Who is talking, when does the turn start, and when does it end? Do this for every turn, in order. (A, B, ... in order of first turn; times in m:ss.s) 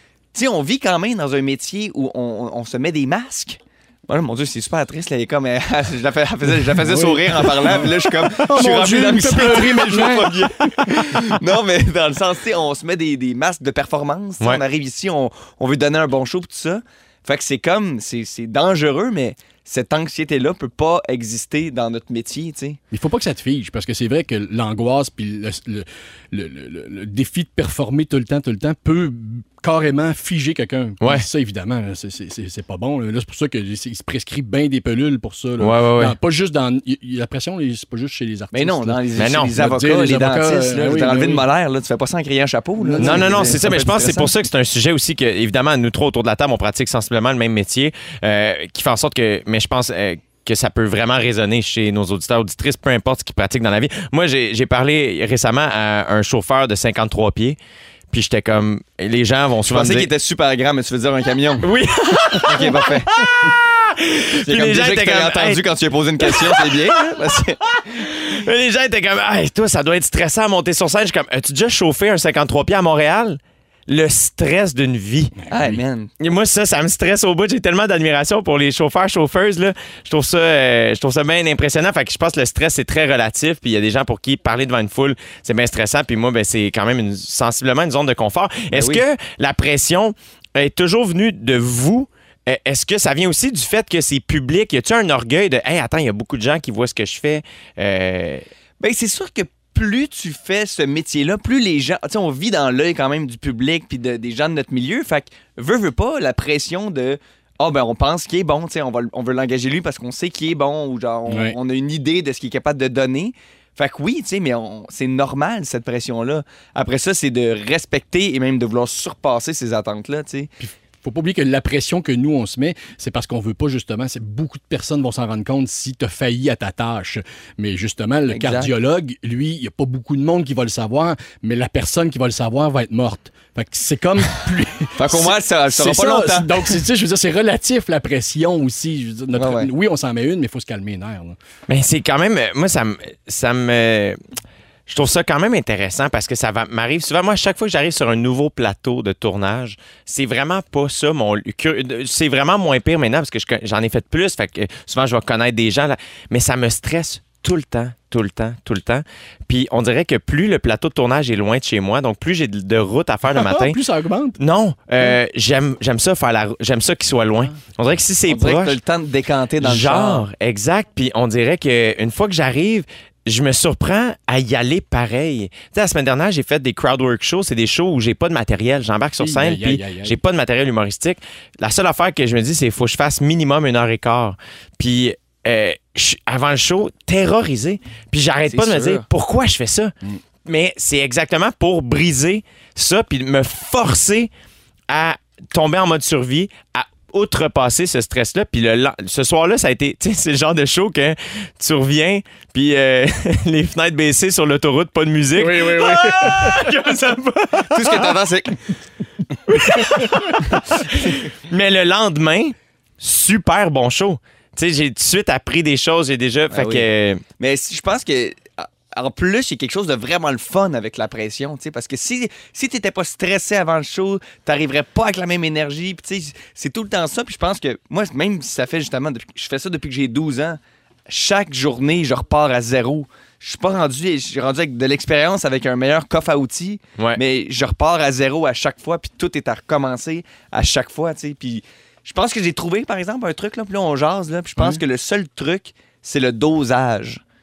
0:00.3-0:22.8 A
0:06.7-0:10.8 B
0:22.9-0:41.4 B
0:35.6-0:36.1 C
0:38.5-0:44.3 A
0:39.2-0:39.5 C
0:42.8-0:43.6 B
0:43.0-0:57.6 C
0:58.1-1:00.1 C
0:59.7-1:01.7 A
1:01.6-1:05.6 C
1:02.4-1:03.2 A
1:04.4-1:07.6 A
1:06.2-1:15.3 C
1:15.4-1:15.8 B
1:15.5-1:16.1 A
1:16.2-1:38.4 C
1:28.7-1:29.0 A
1:38.8-2:00.5 A
1:51.3-1:51.6 B
2:00.6-2:21.4 B
2:08.3-2:08.7 A
2:15.0-2:16.7 A
2:19.4-2:19.7 A
2:21.7-2:24.2 C
2:24.9-2:43.8 C
2:43.3-2:44.4 B
2:44.4-2:48.8 C
2:48.3-2:50.2 A
2:49.6-3:09.9 C
2:59.2-3:00.2 B
3:08.5-3:09.0 A
3:10.4-3:14.3 C
3:14.9-3:28.1 C
3:25.4-3:26.7 B
3:27.7-3:28.6 A
3:29.5-3:37.2 C
3:36.5-3:36.9 A
3:37.4-4:07.2 A
4:04.6-4:04.8 B